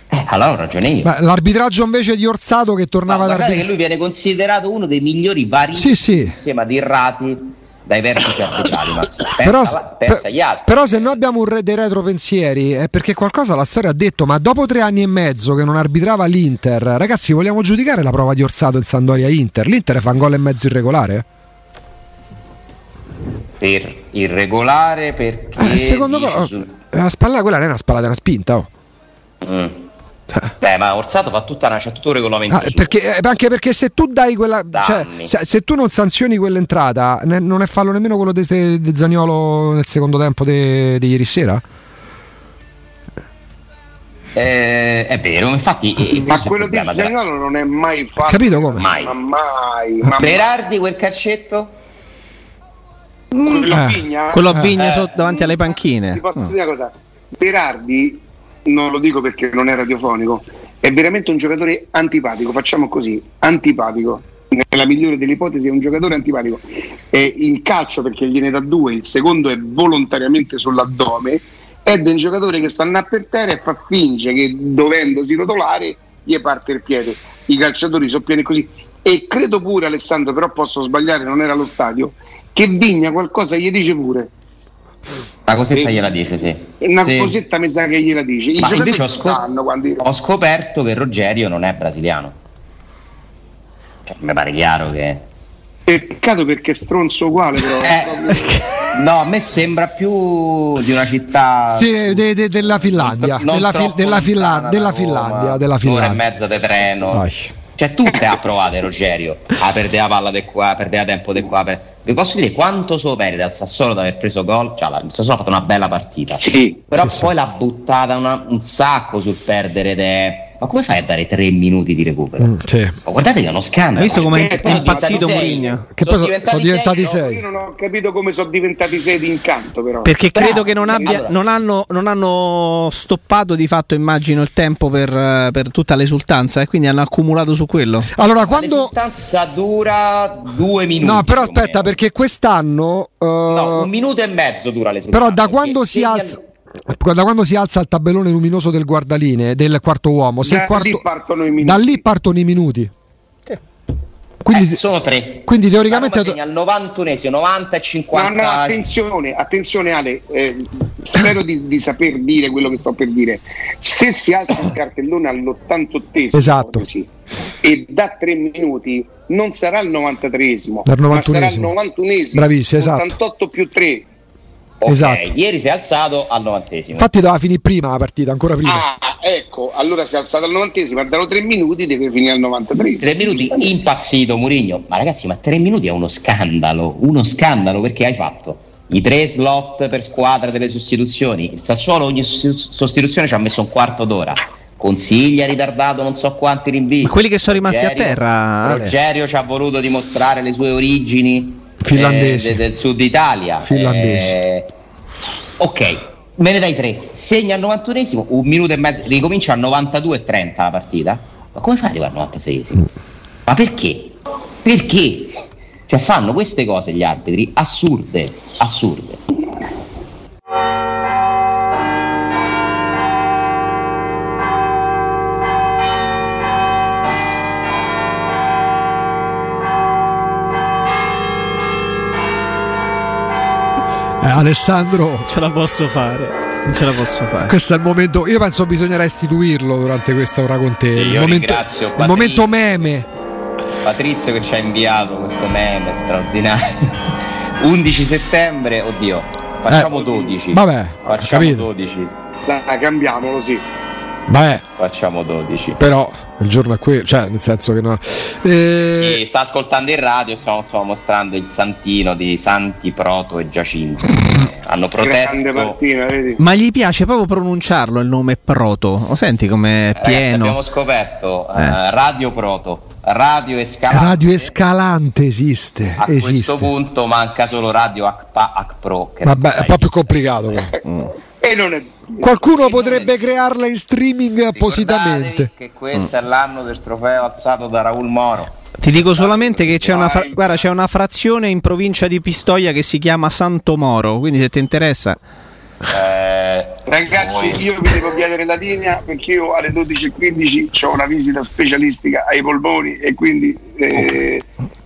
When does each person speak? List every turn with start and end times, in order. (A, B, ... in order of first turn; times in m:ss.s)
0:00.1-0:01.1 A
0:01.0-0:03.7 B
0:03.1-0:11.2 A
0:05.8-0:06.4 B
0:09.4-0:21.2 B
0:23.6-0:26.7 A
0:25.6-0:28.7 B
0:29.4-0:29.8 A
0:30.6-0:33.0 A
0:32.5-0:41.6 B
0:34.7-0:35.3 A
0:44.4-0:47.1 A
0:46.1-0:50.5 C
0:48.2-0:48.9 B
0:48.8-0:49.2 A
0:50.1-0:51.8 A
0:53.3-1:24.3 C
0:53.7-0:54.8 B
0:54.3-0:56.5 D
0:54.8-0:55.1 A
1:25.5-1:27.4 A
1:25.7-1:26.0 C
1:26.8-1:30.1 C
1:28.6-1:29.4 A
1:30.0-1:32.4 A
1:34.1-1:35.2 A
1:35.9-1:38.6 C
1:37.8-2:07.2 A
1:41.7-1:46.2 B
1:47.1-1:47.5 B
1:57.0-1:57.2 B
2:02.4-2:03.0 B
2:04.0-2:05.9 D
2:04.1-2:05.8 C
2:05.9-2:07.4 B
2:07.2-2:10.2 C
2:10.0-2:18.1 D
2:10.3-2:11.4 A
2:10.8-2:11.2 C
2:18.1-2:18.9 B
2:18.4-2:22.0 A
2:21.0-2:23.9 B
2:23.5-2:26.4 A
2:25.1-2:31.0 B
2:30.4-2:32.0 C
2:31.6-2:32.9 B
2:34.4-2:34.8 B
2:34.5-2:38.8 A
2:35.4-2:36.4 B
2:38.1-2:47.1 C
2:46.3-2:46.8 B
2:47.6-2:54.1 C
2:50.9-2:51.7 B
2:52.3-2:53.1 B
2:54.8-2:57.1 A
2:54.9-2:55.3 B
2:57.0-2:58.9 B
2:58.6-3:03.7 C
3:03.0-3:24.7 A
3:17.0-3:19.0 D
3:21.8-3:22.6 B
3:23.6-3:24.4 B
3:25.6-3:32.9 A
3:33.5-3:39.2 A
3:54.2-3:55.3 B
3:55.3-3:57.6 D
3:57.4-4:03.1 B
4:00.9-4:02.9 A
4:03.8-4:12.1 A
4:09.9-4:10.4 C
4:10.5-4:11.7 B
4:12.5-4:13.6 C
4:14.3-4:14.6 B
4:14.8-4:15.8 A
4:15.8-4:19.2 B
4:19.0-4:25.8 A
4:25.0-4:26.4 C
4:26.4-4:30.6 D
4:30.0-4:34.5 A
4:33.9-4:36.7 B
4:36.0-4:40.7 A
4:39.2-4:40.8 B
4:40.8-4:43.0 C
4:42.2-4:45.5 B
4:42.6-4:43.2 A
4:44.5-4:48.6 A
4:48.8-4:55.2 D
4:49.2-4:50.7 C
4:55.9-4:57.6 A
4:56.9-5:04.4 C